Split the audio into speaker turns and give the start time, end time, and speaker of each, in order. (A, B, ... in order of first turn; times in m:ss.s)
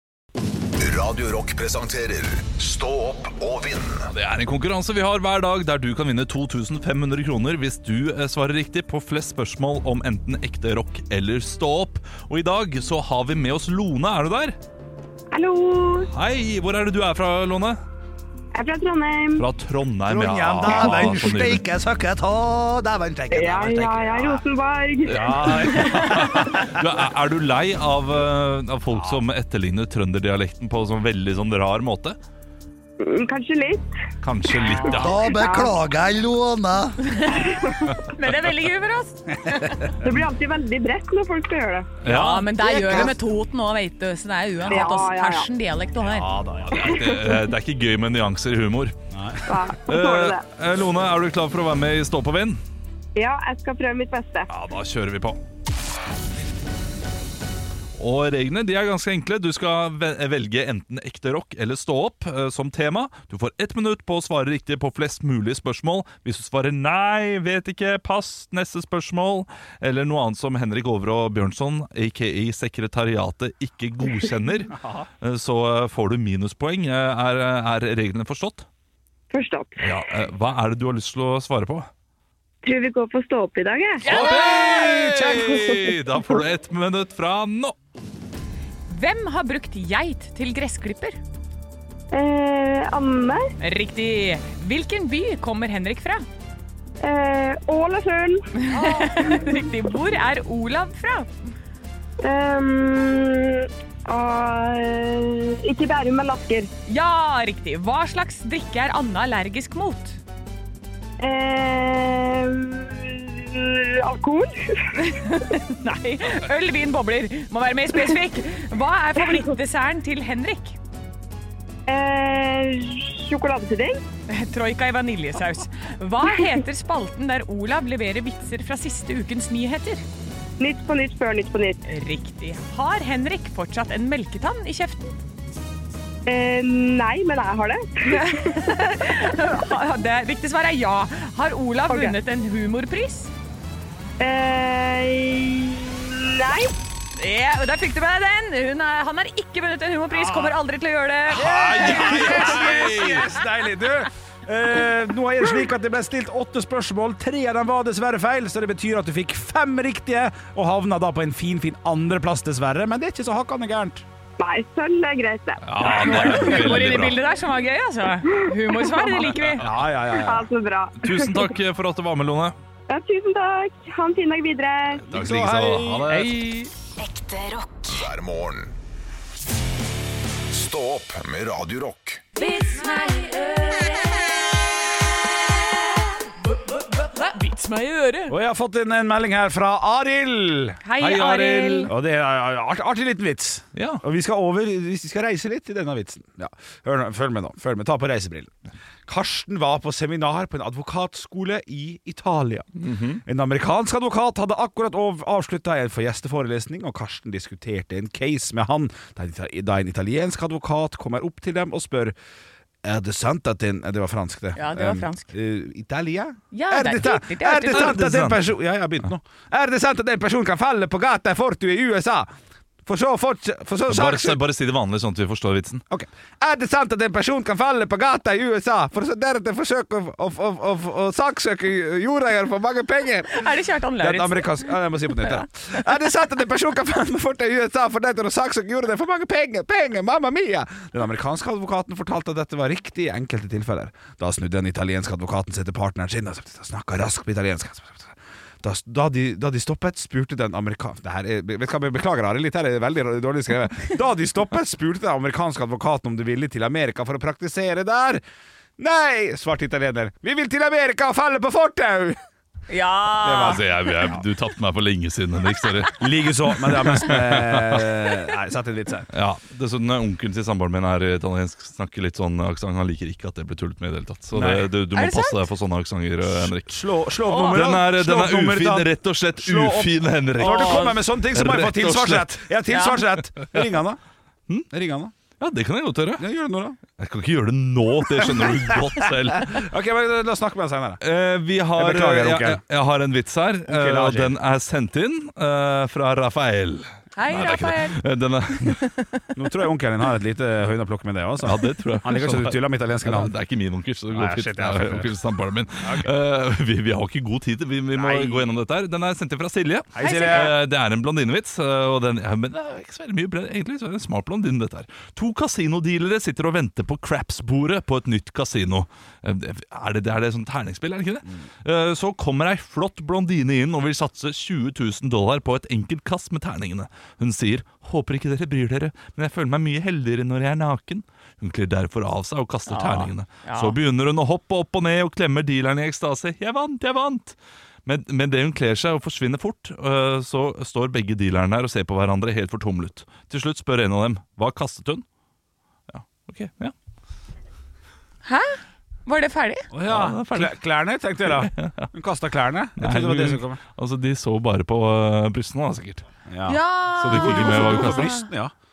0:00.8-0:04.1 A
0:04.1-0:14.6 B
0:15.3-0:16.1 C
0:16.1-0:17.8 B
0:18.5-0:19.4 C
0:19.4-0:21.7 B
0:20.1-0:24.4 D
0:23.3-0:26.3 C
0:25.1-0:26.7 D
0:25.1-0:32.2 B
0:28.9-0:29.2 D
0:33.0-0:33.9 C
0:34.2-0:35.4 B
0:34.7-0:35.7 C
0:34.9-0:37.0 D
0:37.0-0:40.0 E
0:37.4-0:37.9 C
0:40.0-0:41.9 C
0:42.0-0:42.5 B
0:42.1-0:46.3 E
0:42.2-0:43.1 D
0:44.7-0:45.5 C
0:46.0-0:47.0 D
0:46.7-0:49.0 B
0:46.8-0:47.4 C
0:49.1-0:49.6 D
0:49.5-0:50.4 C
0:49.9-0:52.6 B
0:53.2-0:54.5 C
0:54.5-0:55.4 B
0:58.0-1:18.7 B
1:14.7-1:15.1 D
1:19.3-1:19.9 C
1:19.8-1:21.9 B
1:22.6-1:24.1 C
1:24.0-1:24.9 E
1:24.1-1:27.8 B
1:24.1-1:25.5 D
1:28.9-1:31.2 E
1:32.1-1:33.4 C
1:33.6-1:36.2 E
1:37.0-1:39.6 C
1:38.6-1:41.3 E
1:42.2-1:46.7 C
1:46.9-1:50.2 E
1:51.2-1:55.1 C
1:55.0-2:00.8 E
2:01.9-2:04.0 C
2:04.3-2:10.0 E
2:10.6-2:11.8 C
2:11.9-2:15.2 E
2:16.3-2:18.3 C
2:18.1-2:23.3 E
2:21.9-2:22.2 C
2:24.2-2:26.7 C
2:27.2-2:33.2 E
2:31.3-2:44.0 D
2:31.4-2:33.3 B
2:44.4-2:46.5 C
2:45.6-2:47.2 B
2:45.8-2:49.6 E
2:48.7-2:49.5 C
2:49.6-2:50.5 D
2:50.1-2:51.5 C
2:51.0-2:52.6 B
2:52.9-2:55.0 C
2:55.0-2:56.4 B
2:55.1-2:56.1 D
2:56.1-2:56.7 E
2:57.1-2:58.7 A
3:00.5-3:02.2 A
3:02.4-3:04.1 E
3:07.0-3:08.4 E
3:08.3-3:10.8 D
3:10.8-3:11.9 E
3:11.0-3:11.9 B
3:11.9-3:18.5 D
3:13.8-3:14.0 B
3:19.1-3:32.2 D
3:22.8-3:23.2 B
3:32.8-3:42.3 D
3:34.6-3:35.3 E
3:36.5-3:38.0 E
3:37.7-3:38.4 B
3:42.8-3:44.4 D
3:43.9-3:45.8 B
3:45.9-3:53.5 D
3:53.3-3:55.3 E
3:54.0-4:18.2 D
4:18.8-4:22.2 D
4:22.7-4:23.6 E
4:23.2-4:24.2 D
4:23.3-4:26.0 B
4:26.0-4:29.1 D
4:26.7-4:27.9 B
4:29.1-4:36.8 B
4:34.3-4:34.7 D
4:35.0-4:35.4 E
4:36.3-4:44.0 D
4:37.3-4:37.6 E
4:37.5-4:42.4 B
4:40.4-4:41.0 E
4:42.7-4:43.0 E
4:44.7-4:45.1 D
4:45.4-4:46.3 B
4:46.2-4:46.8 D
4:47.0-4:49.7 B
4:48.2-4:51.0 D
4:51.0-4:58.9 B
4:51.8-4:52.6 D
4:53.7-4:54.4 D
4:57.2-4:58.0 E
4:58.6-4:59.0 E
4:59.4-5:03.3 D
5:01.4-5:45.0 B
5:04.1-5:05.2 D
5:05.8-5:06.1 D
5:07.9-5:08.5 D
5:09.9-5:10.6 D
5:10.0-5:10.5 E
5:32.7-5:33.8 E
5:45.9-5:46.7 B
5:48.3-5:49.7 E
5:49.7-5:53.6 D
5:49.9-5:50.6 B
5:51.2-5:51.9 B
5:52.8-5:56.0 B
5:56.3-5:58.5 D
5:56.5-5:58.3 E
5:57.0-5:58.2 B